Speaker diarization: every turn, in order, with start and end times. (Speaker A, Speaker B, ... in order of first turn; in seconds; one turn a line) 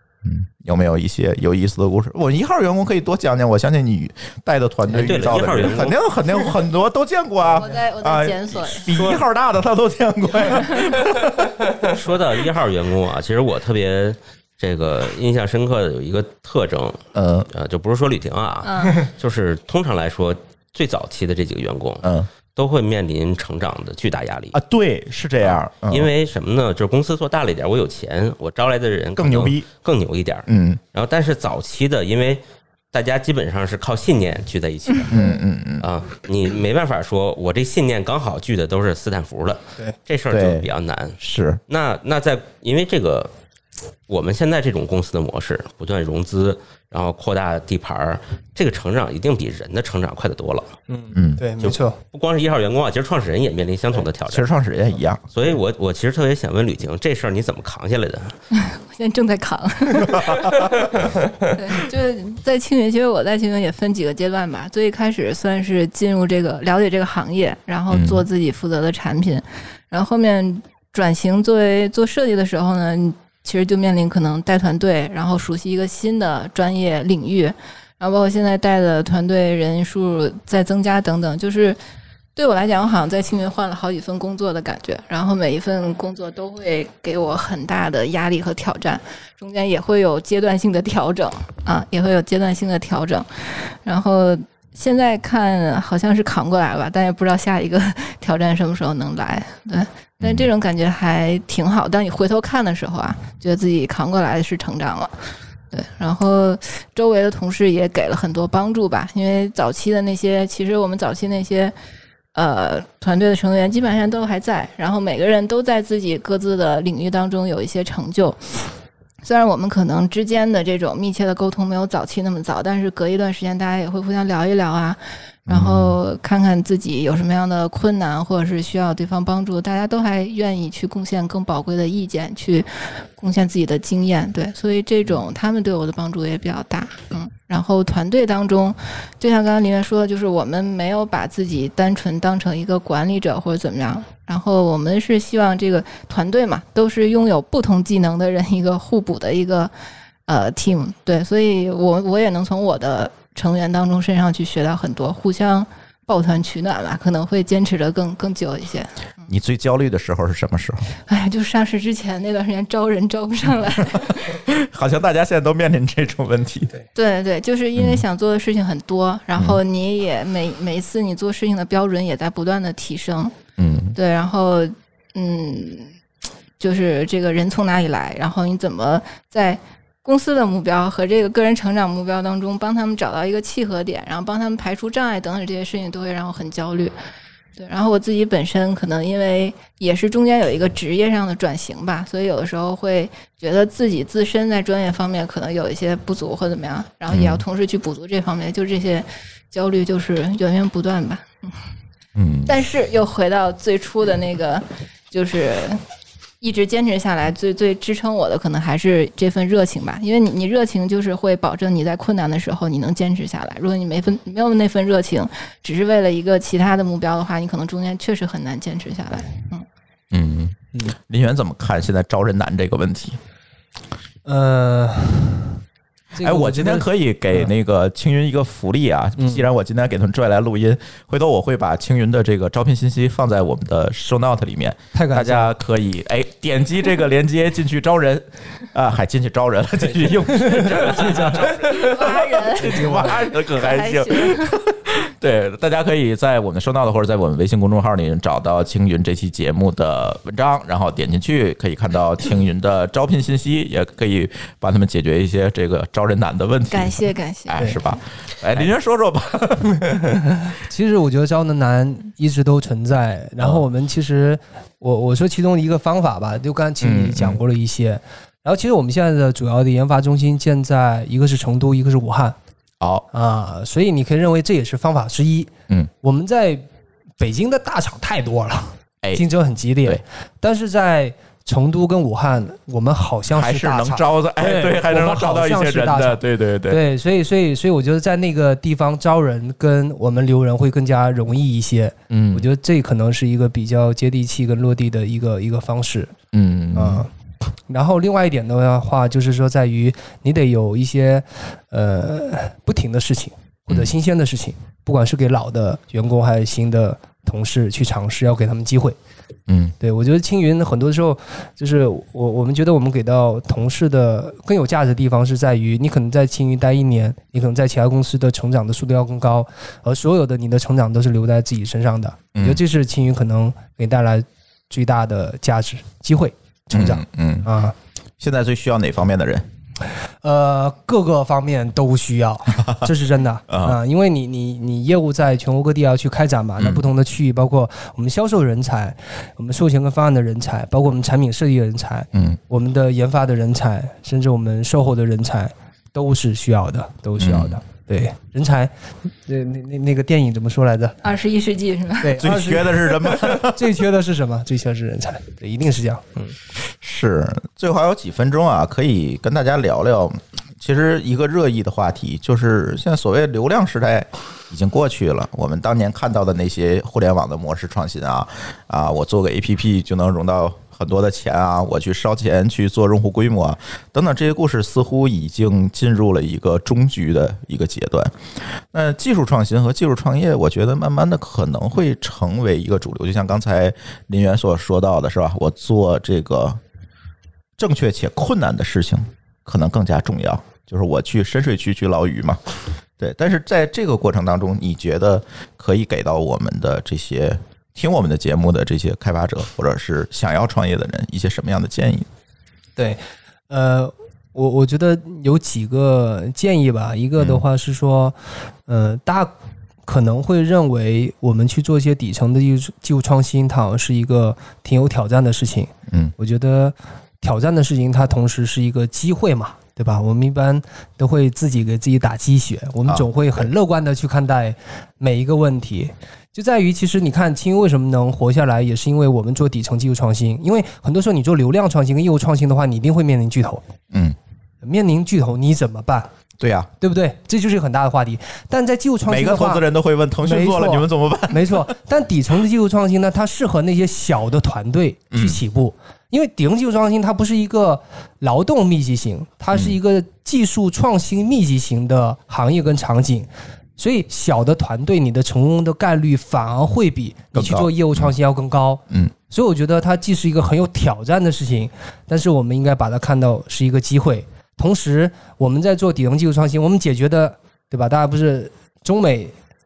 Speaker A: 0.2-11.8
Speaker B: 4.9-6.0
Speaker C: 7.5-8.9
Speaker B: 11.8-17.0
Speaker A: 17.1-17.5
Speaker B: 17.5-24.6
Speaker C: 18.6-19.0
Speaker A: 22.0-22.3
Speaker A: 24.5-26.1
Speaker B: 25.5-32.4
Speaker A: 29.2-29.6
Speaker A: 30.5-30.8
Speaker B: 32.9-35.3
Speaker A: 35.1-35.9
Speaker B: 35.8-41.2
Speaker A: 40.3-40.7
Speaker A: 41.2-41.6
Speaker B: 41.7-43.3
Speaker B: 44.1-50.7
Speaker D: 50.9-52.0
Speaker A: 51.1-51.4
Speaker B: 51.6-54.5
Speaker A: 54.3-55.2
Speaker B: 55.3-58.3
Speaker C: 58.5-60.9
Speaker A: 60.1-60.6
Speaker C: 61.5-81.8
Speaker A: 67.9-68.3
Speaker C: 82.4-105.1
Speaker A: 100.2-100.5
Speaker C: 105.7-111.7
Speaker C: 112.3-118.7
Speaker C: 119.2-149.7
Speaker A: 125.5-126.0
Speaker C: 150.3-159.3
Speaker A: 159.3-160.9
Speaker C: 161.1-164.3
Speaker A: 164.3-166.7
Speaker C: 166.9-173.3
Speaker A: 167.8-168.0
Speaker A: 173.6-174.0
Speaker C: 173.9-175.9
Speaker C: 176.6-186.9
Speaker C: 187.6-201.5
Speaker A: 197.1-197.4
Speaker A: 202.2-202.6
Speaker C: 202.5-205.8
Speaker C: 206.4-219.7
Speaker A: 220.1-223.2
Speaker D: 224.2-225.6
Speaker D: 226.1-227.5
Speaker A: 226.2-260.1
Speaker D: 229.2-229.5
Speaker D: 234.9-235.6
Speaker C: 241.7-244.6
Speaker D: 242.7-243.1
Speaker C: 256.7-257.7
Speaker D: 260.5-272.4
Speaker A: 266.8-267.4
Speaker A: 272.8-273.1
Speaker D: 273.1-275.5
Speaker D: 276.0-276.7
Speaker D: 277.2-296.1
Speaker A: 283.3-286.8
Speaker A: 292.1-292.5
Speaker A: 296.3-297.1
Speaker D: 296.8-297.1
Speaker D: 297.7-309.0
Speaker A: 309.5-309.8
Speaker D: 309.8-327.8
Speaker A: 322.4-322.6
Speaker A: 326.7-327.5
Speaker A: 328.2-329.5
Speaker D: 330.2-348.7
Speaker A: 332.6-332.9
Speaker A: 333.5-333.8
Speaker A: 336.6-336.8
Speaker A: 342.1-342.4
Speaker A: 347.2-347.6
Speaker D: 349.3-351.0
Speaker C: 351.0-352.2
Speaker D: 352.0-356.3
Speaker A: 352.2-353.7
Speaker A: 356.6-378.1
Speaker A: 378.7-386.6
Speaker A: 387.6-392.4
Speaker A: 393.0-402.1
Speaker D: 402.8-408.2
Speaker A: 407.2-407.4
Speaker D: 408.7-409.3
Speaker D: 409.9-433.6
Speaker A: 415.9-416.1
Speaker A: 422.9-423.5
Speaker A: 433.9-434.2
Speaker D: 434.6-436.1
Speaker A: 436.4-436.7
Speaker D: 436.8-439.6
Speaker A: 439.1-441.7
Speaker D: 440.2-469.3
Speaker A: 445.1-445.4
Speaker A: 449.5-449.8
Speaker A: 457.4-458.1